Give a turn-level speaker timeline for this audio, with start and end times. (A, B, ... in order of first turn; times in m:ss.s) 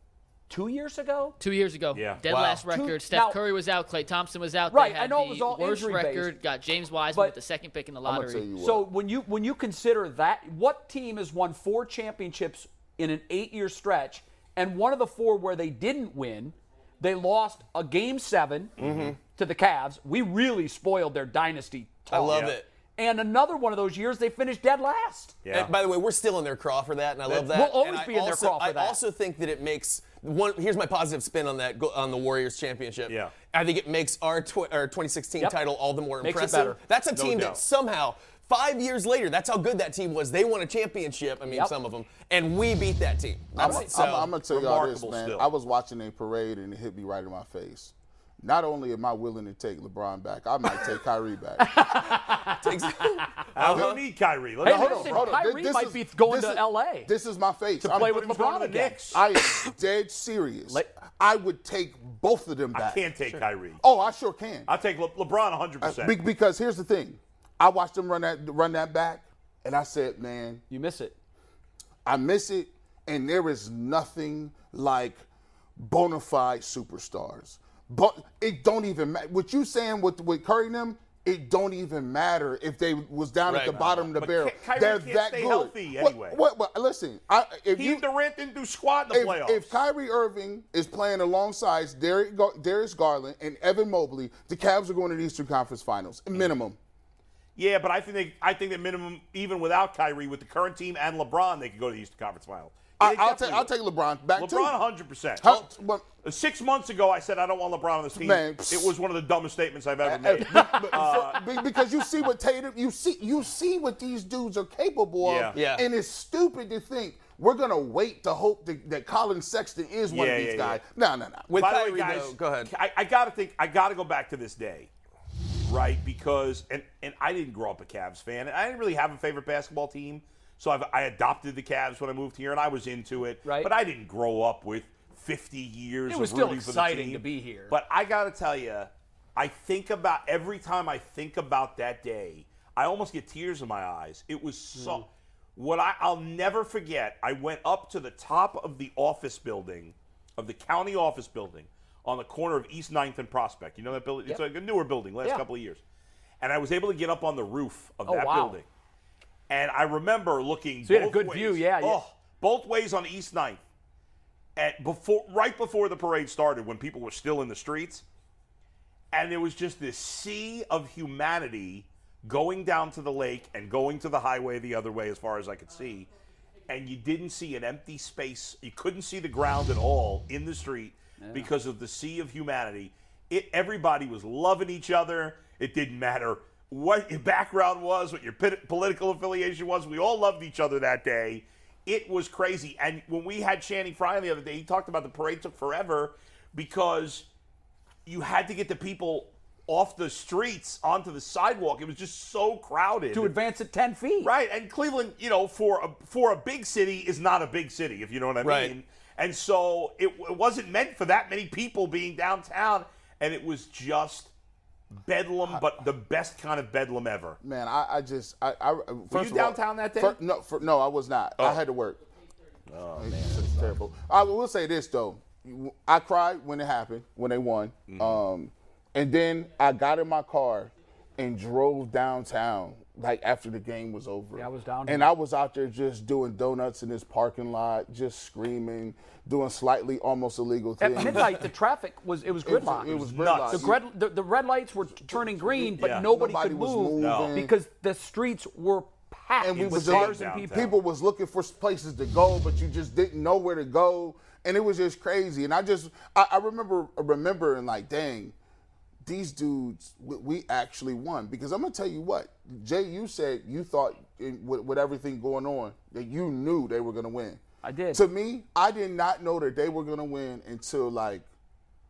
0:00.5-0:01.4 A
0:01.4-0:08.4 B
0:01.9-0:02.2 C
0:02.3-0:02.6 D
0:02.6-0:03.4 A
0:04.7-0:06.3 A
0:08.0-0:08.9 E
0:08.6-0:18.8 A
0:18.8-0:19.1 C
0:18.8-0:19.2 D
0:19.4-0:25.4 A
0:22.1-0:22.6 D
0:25.4-0:25.7 C
0:25.5-0:44.3 D
0:27.3-0:29.0 A
0:33.1-0:33.3 C
0:36.2-0:36.8 A
0:37.1-0:37.6 C
0:43.6-0:51.9 E
0:43.6-0:43.9 A
0:43.9-0:45.5 C
0:51.6-0:53.3 A
0:52.3-0:53.9 D
0:53.6-0:55.4 C
0:53.6-0:54.0 E
0:54.6-0:57.1 A
0:54.6-0:58.3 E
0:57.8-0:59.1 A
0:58.0-0:59.2 C
0:59.1-1:03.0 E
1:02.7-1:03.8 C
1:03.8-1:04.7 E
1:04.7-1:06.2 C
1:05.8-1:10.6 E
1:10.7-1:11.1 A
1:12.0-1:15.2 E
1:15.8-1:28.0 E
1:23.5-1:23.8 D
1:23.7-1:26.4 C
1:27.7-1:29.7 C
1:29.1-1:36.8 E
1:37.6-1:43.7 C
1:43.0-1:44.8 E
1:44.3-1:45.6 C
1:45.4-1:46.0 E
1:46.2-1:51.5 C
1:48.1-1:49.0 E
1:50.0-2:01.5 E
1:55.2-1:55.6 C
1:55.5-1:55.9 D
2:00.1-2:00.8 C
2:01.5-2:02.7 D
2:01.5-2:04.9 C
2:05.6-2:35.8 C
2:13.4-2:13.7 A
2:16.1-2:17.8 A
2:24.8-2:25.0 A
2:36.4-2:38.7 C
2:38.0-2:38.6 A
2:39.5-2:43.6 C
2:40.9-2:42.0 A
2:44.6-2:48.0 C
2:49.1-2:56.1 C
2:56.7-3:17.3 C
3:01.2-3:01.5 A
3:18.0-3:23.4 C
3:23.1-3:24.3 A
3:24.2-3:34.3 C
3:28.4-3:28.7 D
3:35.0-3:37.4 C
3:37.4-3:42.0 E
3:39.1-3:40.2 C
3:42.7-3:43.7 C
3:43.0-4:01.5 E
3:47.9-3:48.2 C
3:54.4-3:55.1 A
4:00.8-4:03.0 A
4:02.4-4:03.8 E
4:02.9-4:03.7 C
4:03.5-4:10.7 A
4:05.0-4:07.5 E
4:05.8-4:06.0 C
4:07.0-4:07.4 C
4:09.4-4:18.3 E
4:09.5-4:10.7 C
4:19.0-4:27.4 E
4:27.6-4:28.0 A
4:27.9-4:31.3 E